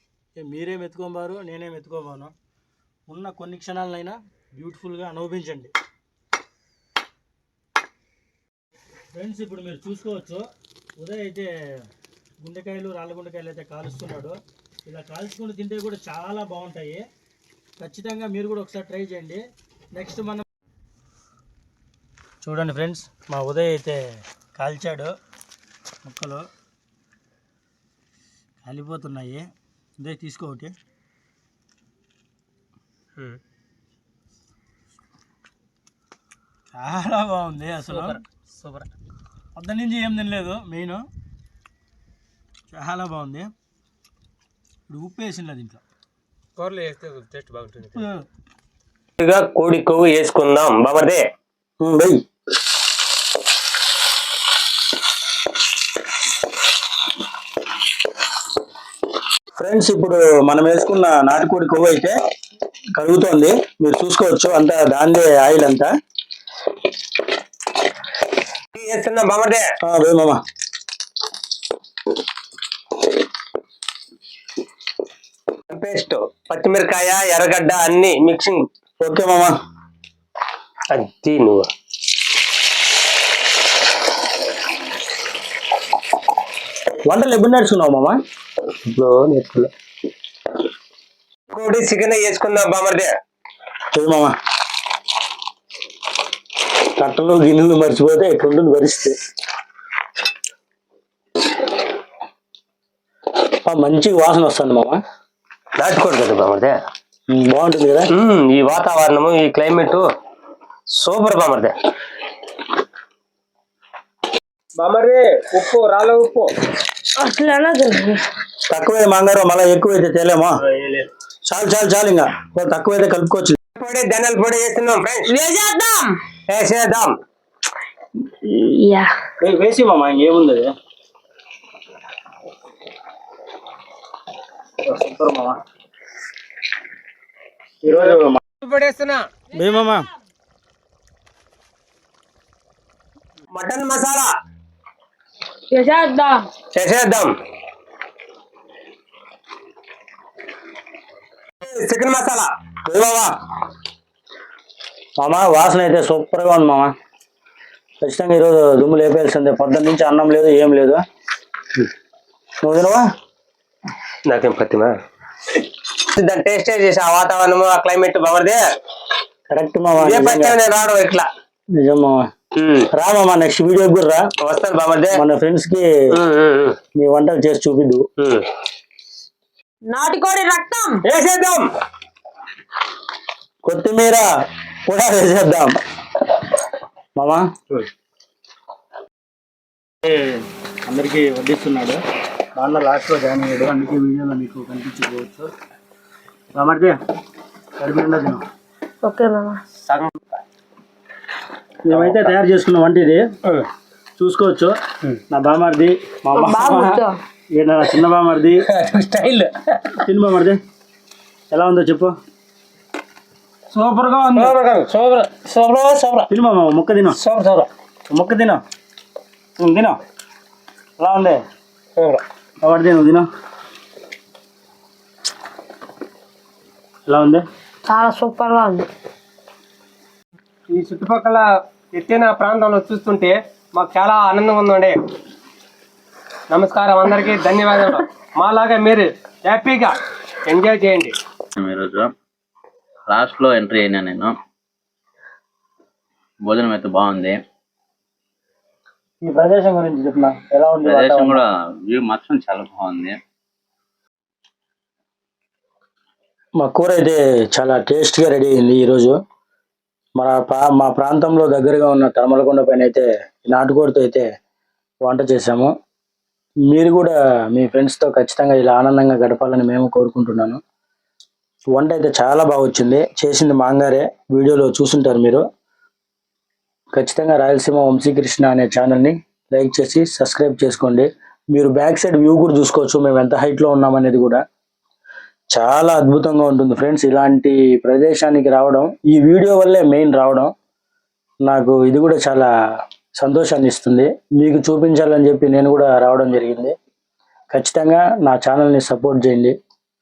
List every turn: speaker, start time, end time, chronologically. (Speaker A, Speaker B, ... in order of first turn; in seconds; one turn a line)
Speaker A: 0.4-2.3
Speaker A: 3.1-5.7
Speaker A: 9.1-10.4
Speaker A: 11.0-11.5
Speaker A: 12.4-17.0
Speaker A: 17.8-19.4
Speaker A: 19.9-20.4
Speaker A: 22.4-25.1
Speaker A: 26.0-26.4
Speaker A: 28.6-29.4
Speaker A: 30.0-30.7
Speaker A: 36.7-38.2
Speaker B: 37.9-38.9
Speaker A: 39.5-41.0
Speaker A: 42.7-43.5
Speaker A: 44.9-45.8
Speaker B: 46.6-48.0
Speaker A: 47.9-48.2
Speaker B: 49.2-51.2
Speaker A: 51.8-52.2
Speaker A: 59.6-62.1
Speaker A: 63.0-65.9
Speaker B: 68.7-69.6
Speaker A: 69.8-70.4
Speaker B: 75.7-78.7
Speaker A: 79.0-79.6
Speaker B: 80.9-81.7
Speaker A: 87.0-88.2
Speaker B: 88.9-89.7
Speaker B: 91.5-93.1
Speaker A: 93.9-94.3
Speaker A: 97.0-99.1
Speaker A: 103.6-105.0
Speaker B: 105.8-106.8
Speaker A: 107.3-108.1
Speaker B: 108.1-110.0
Speaker B: 110.9-111.7
Speaker B: 114.8-116.5
Speaker C: 117.2-118.2
Speaker A: 118.7-120.5
Speaker B: 120.7-121.1
Speaker A: 121.5-123.6
Speaker B: 123.8-125.3
Speaker C: 125.3-126.1
Speaker B: 126.5-127.1
Speaker C: 128.4-129.1
Speaker A: 129.4-130.7
Speaker A: 134.8-135.6
Speaker A: 137.8-138.4
Speaker B: 137.9-139.3
Speaker A: 139.5-140.1
Speaker B: 143.5-144.3
Speaker C: 145.7-146.5
Speaker B: 146.7-147.3
Speaker B: 151.6-153.3
Speaker A: 155.2-156.9
Speaker A: 158.0-161.0
Speaker A: 162.6-163.0
Speaker B: 164.3-164.9
Speaker B: 166.1-168.6
Speaker A: 169.5-170.6
Speaker B: 170.0-171.3
Speaker A: 171.8-172.2
Speaker B: 172.6-172.9
Speaker A: 172.9-174.2
Speaker B: 174.4-175.2
Speaker A: 175.1-175.9
Speaker B: 176.1-176.8
Speaker A: 176.9-178.0
Speaker C: 179.9-181.0
Speaker B: 181.1-181.7
Speaker A: 183.6-184.2
Speaker A: 184.8-185.7
Speaker A: 187.2-187.5
Speaker A: 190.0-192.0
Speaker A: 192.6-195.5
Speaker A: 196.5-197.0
Speaker A: 197.8-198.4
Speaker C: 199.0-199.6
Speaker B: 199.9-200.1
Speaker A: 201.8-203.3
Speaker B: 201.9-202.3
Speaker A: 204.2-204.7
Speaker A: 205.3-207.0
Speaker C: 206.3-207.2
Speaker A: 207.5-208.6
Speaker B: 208.7-210.0
Speaker A: 210.0-210.6
Speaker A: 211.5-212.1
Speaker A: 213.7-214.6
Speaker B: 214.3-216.3
Speaker A: 216.3-217.2
Speaker B: 217.2-217.7
Speaker A: 218.1-218.6
Speaker A: 219.6-220.0
Speaker A: 221.0-221.4
Speaker A: 222.6-223.2
Speaker A: 227.1-227.4
Speaker C: 227.9-228.9
Speaker B: 230.7-235.0
Speaker B: 236.5-239.9
Speaker B: 240.5-241.1
Speaker D: 241.6-242.1
Speaker D: 243.1-244.3
Speaker D: 246.4-247.4
Speaker A: 249.2-251.4
Speaker D: 250.8-253.2
Speaker A: 256.6-259.1
Speaker A: 260.2-264.2
Speaker A: 265.0-265.7
Speaker A: 266.7-270.6
Speaker A: 271.7-275.4
Speaker A: 276.9-284.4
Speaker A: 285.5-290.5
Speaker A: 291.4-292.5
Speaker A: 293.2-296.7
Speaker A: 297.5-299.5